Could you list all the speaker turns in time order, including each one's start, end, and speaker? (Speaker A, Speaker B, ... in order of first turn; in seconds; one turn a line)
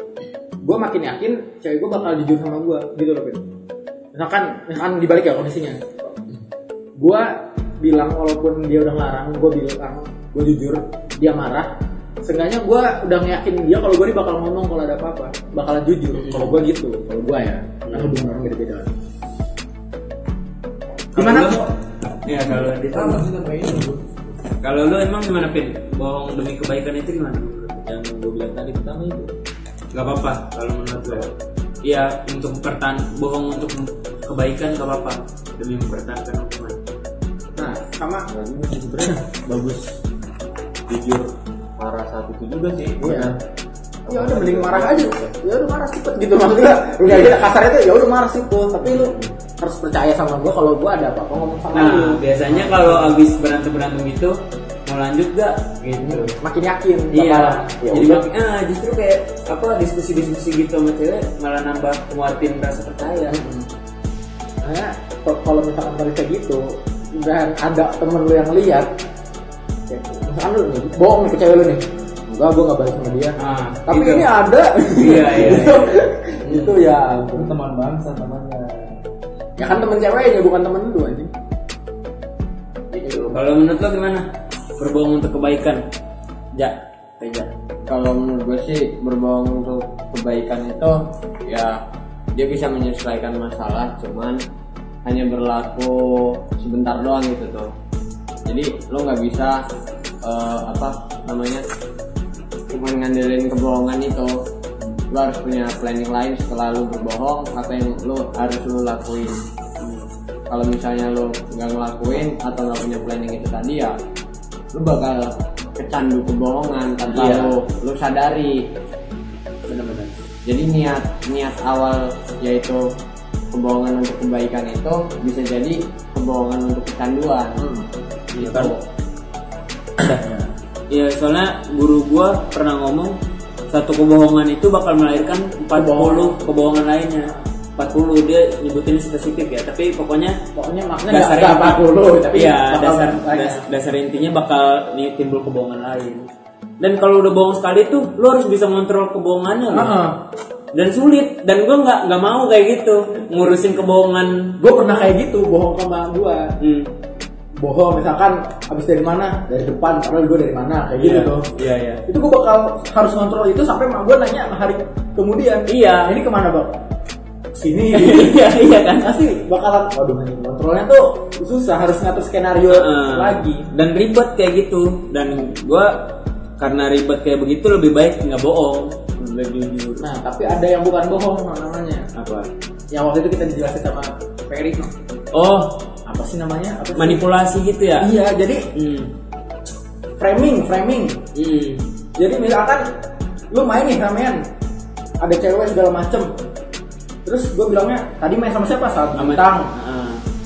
Speaker A: 0.6-3.4
Speaker A: 4.1-6.1
Speaker A: 7.0-11.7
Speaker A: 12.2-18.9
Speaker B: 16.1-16.6
Speaker B: 21.1-23.2
Speaker A: 21.1-21.7
Speaker C: 22.9-24.1
Speaker B: 24.6-27.9
Speaker D: 27.9-29.3
Speaker B: 29.9-31.3
Speaker B: 31.8-36.8
Speaker A: 37.5-38.3
Speaker D: 38.3-39.9
Speaker D: 40.9-43.4
Speaker A: 43.0-43.3
Speaker D: 44.0-45.3
Speaker A: 44.1-53.1
Speaker B: 47.1-47.3
Speaker B: 48.8-49.3
Speaker B: 51.7-56.3
Speaker A: 56.0-58.2
Speaker B: 57.1-63.4
Speaker A: 63.3-63.7
Speaker A: 64.6-68.9
Speaker A: 69.9-77.5
Speaker B: 73.4-74.3
Speaker B: 74.9-76.8
Speaker C: 77.3-78.8
Speaker A: 79.6-81.3
Speaker A: 82.9-83.4
Speaker B: 83.1-85.8
Speaker B: 86.5-87.5
Speaker E: 87.8-91.8
Speaker E: 92.3-94.4
Speaker E: 95.0-97.7
Speaker E: 98.5-99.6
Speaker E: 100.2-101.7
Speaker E: 102.7-104.4
Speaker E: 105.1-109.4
Speaker B: 109.8-110.0
Speaker E: 110.5-114.0
Speaker E: 114.7-118.7
Speaker B: 117.1-117.5
Speaker B: 119.7-120.1
Speaker E: 120.4-122.8
Speaker E: 123.5-127.7
Speaker A: 127.6-127.9
Speaker B: 128.3-128.7
Speaker E: 128.4-128.7
Speaker B: 130.9-133.2
Speaker B: 133.7-140.4
Speaker A: 135.7-136.4
Speaker A: 140.6-143.6
Speaker B: 141.1-141.8
Speaker B: 142.3-146.3
Speaker B: 146.8-150.0
Speaker A: 149.7-150.2
Speaker B: 150.7-154.6
Speaker A: 154.6-156.5
Speaker B: 156.6-156.9
Speaker A: 157.6-161.5
Speaker B: 161.0-162.0
Speaker A: 162.1-166.8
Speaker B: 165.7-166.2
Speaker A: 167.5-173.7
Speaker B: 167.9-169.1
Speaker B: 172.7-179.0
Speaker E: 179.2-179.7
Speaker A: 180.0-182.1
Speaker B: 182.1-182.5
Speaker A: 182.9-184.9
Speaker B: 185.3-185.8
Speaker A: 186.1-187.2
Speaker B: 186.9-188.1
Speaker A: 188.0-188.7
Speaker B: 188.7-189.1
Speaker A: 190.2-191.2
Speaker B: 191.3-191.8
Speaker A: 192.2-192.9
Speaker A: 193.5-194.4
Speaker A: 195.2-196.3
Speaker A: 197.2-199.7
Speaker B: 199.2-200.2